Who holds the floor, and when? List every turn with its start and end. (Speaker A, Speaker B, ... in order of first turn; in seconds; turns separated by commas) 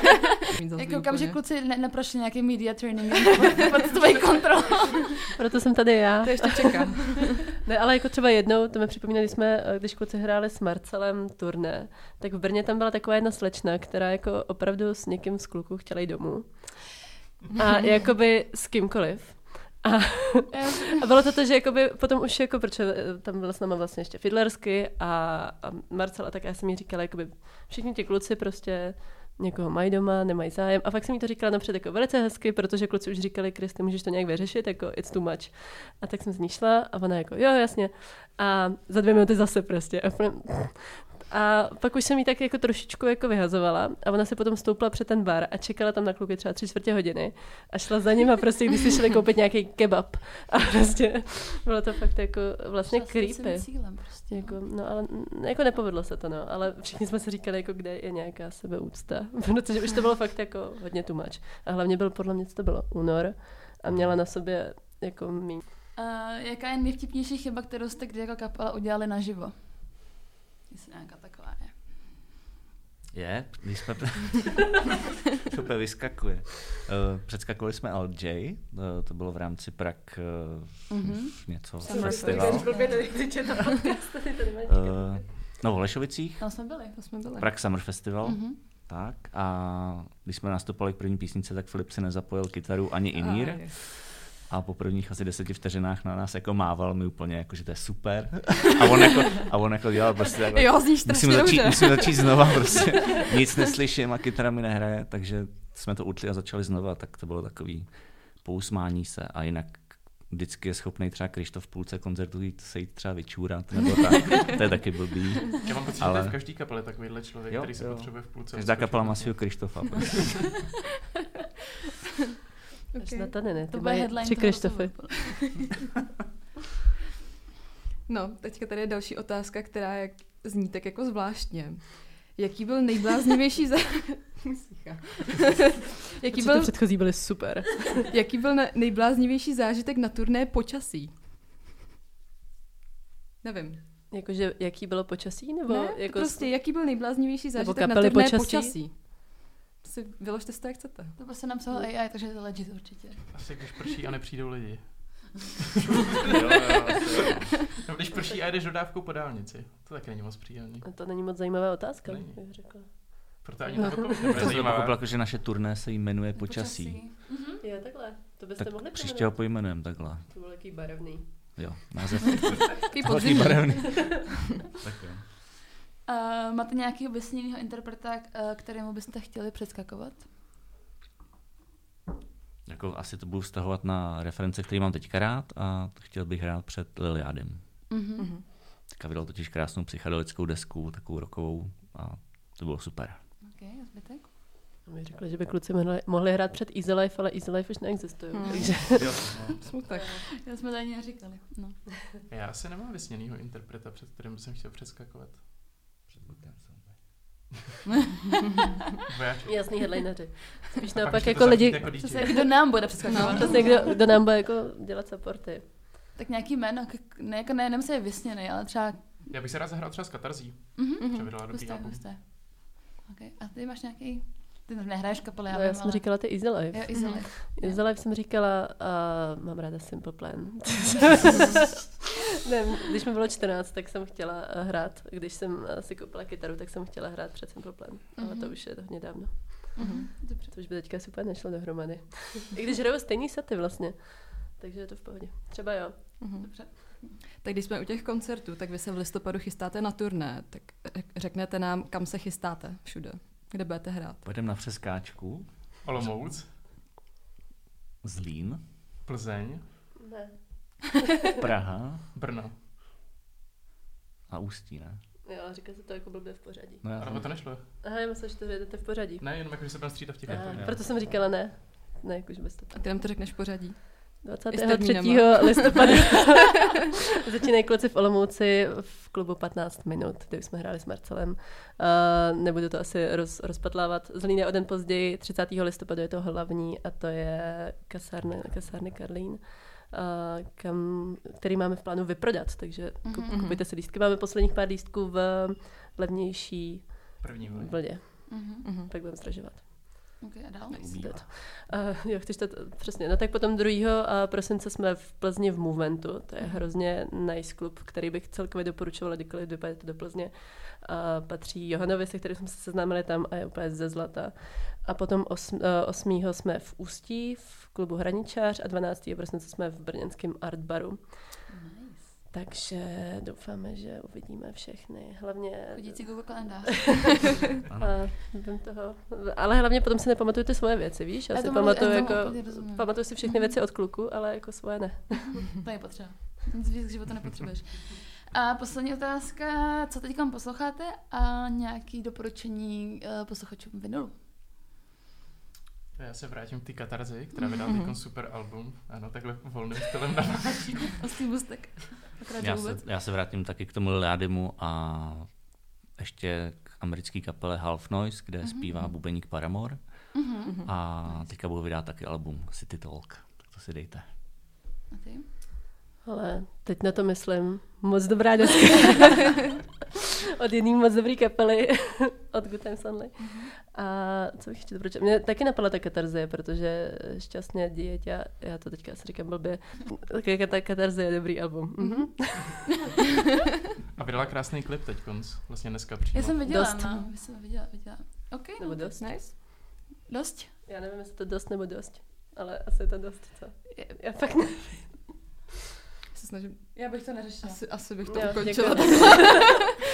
Speaker A: 0.5-1.4, Speaker B: 0.8-5.2, Speaker C: 5.4-65.6, Speaker A: 6.2-7.2, Speaker B: 20.5-20.8, Speaker B: 52.8-54.6, Speaker D: 63.9-64.2, Speaker B: 66.0-72.0, Speaker D: 73.1-74.8, Speaker D: 75.4-82.8, Speaker B: 80.9-83.4, Speaker C: 81.8-85.3, Speaker A: 81.9-83.0, Speaker D: 84.7-116.4, Speaker B: 86.4-87.2, Speaker A: 86.9-87.5, Speaker B: 88.2-88.6, Speaker A: 93.2-93.8, Speaker A: 100.5-103.3, Speaker E: 115.6-120.3, Speaker D: 117.5-120.6, Speaker A: 122.9-123.3, Speaker C: 123.0-125.4, Speaker B: 123.7-125.4, Speaker A: 128.1-137.3, Speaker C: 136.3-138.1, Speaker A: 138.1-141.2, Speaker A: 143.4-143.8, Speaker C: 144.1-146.5, Speaker A: 145.7-151.2, Speaker C: 147.6-148.8, Speaker B: 151.2-153.3, Speaker E: 153.3-160.9, Speaker D: 156.3-157.5, Speaker C: 160.8-164.4, Speaker E: 162.1-165.0, Speaker D: 164.3-167.0, Speaker B: 166.3-167.6, Speaker C: 167.6-171.8, Speaker D: 168.6-170.3, Speaker D: 171.6-175.3, Speaker B: 172.6-174.2, Speaker B: 176.1-180.3, Speaker D: 182.7-188.0, Speaker B: 187.9-188.3, Speaker A: 188.2-188.5, Speaker D: 188.7-193.2, Speaker B: 193.4-194.3, Speaker C: 194.9-199.4, Speaker A: 198.3-198.9, Speaker B: 198.5-199.0, Speaker D: 198.8-199.7, Speaker A: 199.6-200.2, Speaker B: 199.9-201.9, Speaker E: 202.3-205.4, Speaker D: 206.1-207.1, Speaker E: 209.1-210.1, Speaker C: 209.4-215.7, Speaker E: 210.8-212.5, Speaker B: 212.0-214.0, Speaker A: 212.3-213.9, Speaker B: 216.2-219.2, Speaker E: 219.3-222.1, Speaker B: 220.8-227.8, Speaker A: 221.0-221.3, Speaker C: 225.5-231.8, Speaker A: 226.9-227.2, Speaker C: 232.4-246.5, Speaker B: 238.2-238.6, Speaker B: 239.8-240.5, Speaker A: 239.8-240.1, Speaker A: 246.2-254.2, Speaker B: 246.4-247.2, Speaker D: 254.2-256.3, Speaker E: 255.8-256.5, Speaker D: 258.0-258.7, Speaker E: 259.1-259.6, Speaker C: 260.0-261.0, Speaker D: 261.4-262.0, Speaker E: 262.1-262.6, Speaker D: 264.3-265.0, Speaker C: 265.2-269.5, Speaker D: 266.8-267.3, Speaker E: 267.0-267.6, Speaker E: 269.2-270.8, Speaker D: 270.3-270.9, Speaker C: 270.3-272.8, Speaker A: 272.7-276.3, Speaker C: 274.2-276.7, Speaker C: 277.2-300.2, Speaker B: 293.0-293.4, Speaker A: 293.3-293.6, Speaker E: 297.2-298.0, Speaker B: 298.3-298.7, Speaker A: 298.6-298.9, Speaker B: 300.2-300.9, Speaker D: 300.7-301.3, Speaker C: 300.9-321.5, Speaker B: 306.4-306.7, Speaker B: 321.5-322.1, Speaker C: 322.3-335.5, Speaker B: 325.7-327.2, Speaker D: 327.7-328.1, Speaker B: 331.3-333.5, Speaker A: 331.8-332.3, Speaker B: 335.5-344.2, Speaker E: 345.9-351.0, Speaker A: 347.7-348.0, Speaker B: 350.9-352.8, Speaker D: 352.4-364.1, Speaker B: 358.4-359.0, Speaker B: 360.1-361.3, Speaker A: 360.4-360.7, Speaker B: 364.9-365.2, Speaker C: 366.1-369.4, Speaker C: 370.4-382.7, Speaker A: 381.8-382.2, Speaker E: 384.0-386.5, Speaker B: 386.1-390.5, Speaker C: 386.5-387.1, Speaker C: 388.6-389.2, Speaker A: 389.0-389.3, Speaker C: 390.7-395.1, Speaker A: 396.1-399.7, Speaker B: 396.7-399.6, Speaker C: 398.1-399.5